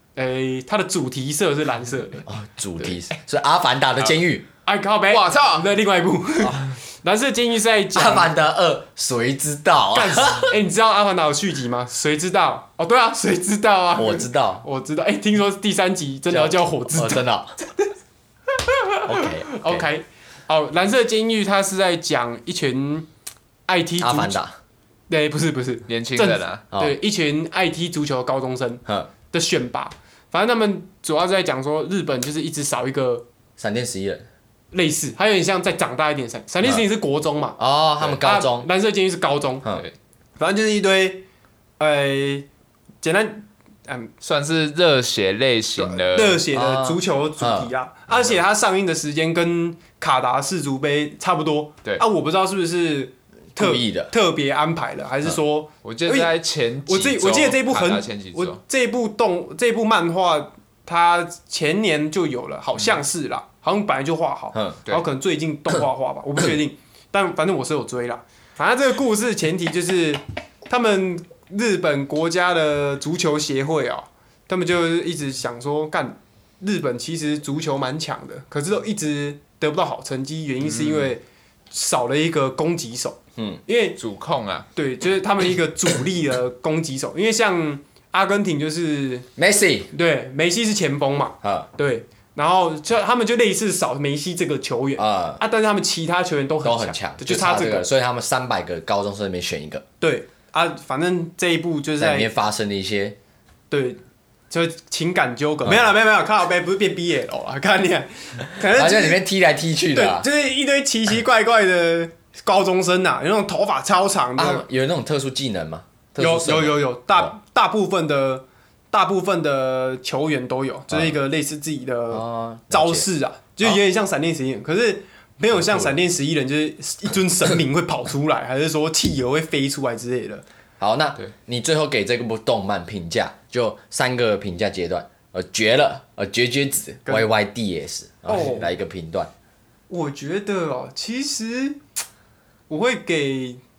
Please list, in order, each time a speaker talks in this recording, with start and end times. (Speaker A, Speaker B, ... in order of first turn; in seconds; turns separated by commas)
Speaker A: 0.1-2.2, Speaker B: 2.2-4.5, Speaker A: 4.7-8.3, Speaker C: 5.1-5.7, Speaker B: 7.9-10.6, Speaker A: 9.9-17.3, Speaker B: 13.9-14.6, Speaker B: 16.3-17.6, Speaker A: 18.6-23.1, Speaker B: 19.0-19.9, Speaker A: 23.6-24.4, Speaker B: 24.0-24.6, Speaker A: 25.1-33.2, Speaker C: 25.9-26.6, Speaker B: 26.7-27.0, Speaker B: 28.9-29.1, Speaker B: 33.6-34.3, Speaker A: 34.7-39.6, Speaker B: 37.6-38.7, Speaker A: 40.4-41.2, Speaker A: 41.8-42.5, Speaker A: 43.0-44.1, Speaker C: 44.2-46.4, Speaker A: 45.8-56.3, Speaker B: 46.5-47.7, Speaker C: 48.1-48.4, Speaker B: 53.5-54.1, Speaker C: 55.8-58.6, Speaker A: 56.9-84.0, Speaker C: 80.6-81.1, Speaker C: 84.0-84.7, Speaker A: 84.7-89.3, Speaker B: 89.3-89.9, Speaker A: 89.9-97.9, Speaker B: 91.4-91.7, Speaker B: 95.0-95.4, Speaker B: 96.6-99.8, Speaker A: 100.0-102.3, Speaker B: 102.0-103.2, Speaker A: 103.7-109.2, Speaker B: 108.7-110.3, Speaker A: 109.9-114.6, Speaker B: 114.3-117.3, Speaker A: 116.2-130.4, Speaker B: 120.9-121.2, Speaker B: 122.1-123.1, Speaker B: 125.5-125.9, Speaker B: 130.8-139.3, Speaker A: 138.2-138.7, Speaker A: 139.9-141.8, Speaker A: 142.7-143.6